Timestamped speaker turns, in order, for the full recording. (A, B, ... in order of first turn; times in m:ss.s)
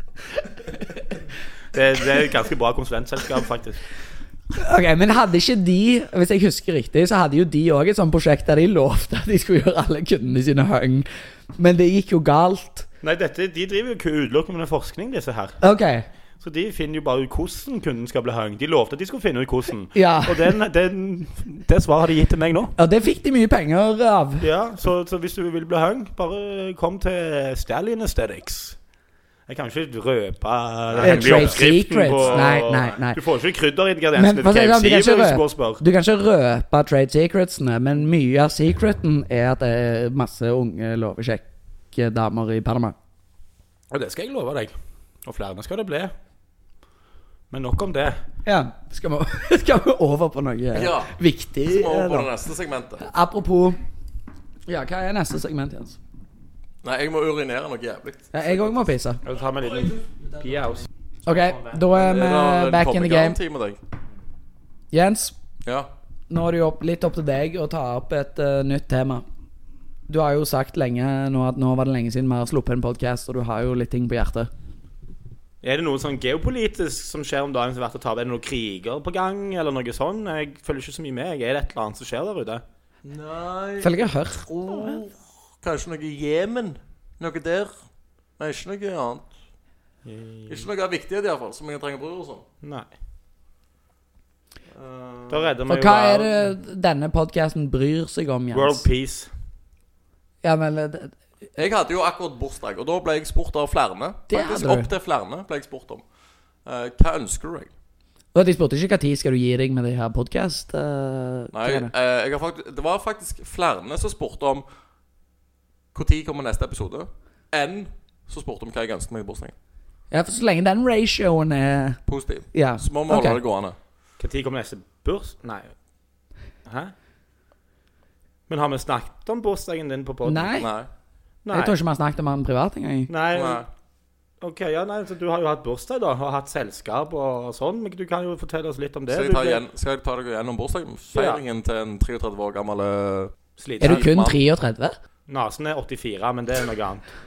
0:01.7-0:03.8 A
0:04.5-0:12.9 B
0:13.0-0:15.6 A
0:15.6-0:16.0 B
0:16.4-0:22.7 A
0:19.9-0:20.6 B
0:22.8-0:24.5 B
0:24.4-0:28.8 A
0:29.5-0:35.8 A
0:30.9-0:32.5 C
0:31.0-0:33.2 B
0:34.1-0:42.9 B
0:43.9-0:46.1 A
0:47.5-0:48.2 A
0:48.4-0:52.3 B
0:50.7-0:53.1 C
0:53.0-0:53.8 B
0:54.7-0:56.0 B
0:56.8-0:58.8 C
0:58.3-0:59.2 B
0:59.2-1:00.9 A
1:01.2-1:03.4 B
1:01.9-1:03.8 C
1:04.9-1:05.3 B
1:05.6-1:05.9 C
1:06.3-1:09.2 B
1:10.1-1:14.5 B
1:15.6-1:22.6 A
1:23.0-1:27.7 C
1:23.8-1:24.8 B
1:28.4-1:29.3 C
1:30.0-1:30.6 A
1:30.5-1:32.4 C
1:32.6-1:32.9 A
1:34.7-1:35.5 C
1:35.3-1:36.5 A
1:35.7-1:38.8 B
1:38.5-1:39.3 A
1:40.4-1:41.1 B
1:41.6-1:46.0 C
1:44.3-1:44.9 B
1:46.6-1:47.7 C
1:48.3-1:51.9 B
1:51.5-1:54.6 C
1:55.9-1:59.5 C
2:00.1-2:02.0 B
2:02.1-2:03.8 C
2:02.5-2:03.4 B
2:04.2-2:05.7 A
2:06.6-2:06.9 A
2:08.5-2:10.6 A
2:10.2-2:10.7 B
2:10.6-2:10.9 C
2:11.4-2:11.8 A
2:11.5-2:13.1 B
2:13.1-2:13.7 A
2:13.3-2:13.6 C
2:14.4-2:19.6 A
2:19.1-2:24.4 C
2:21.1-2:21.4 A
2:23.6-2:24.1 A
2:23.8-2:25.0 B
2:25.3-2:27.0 A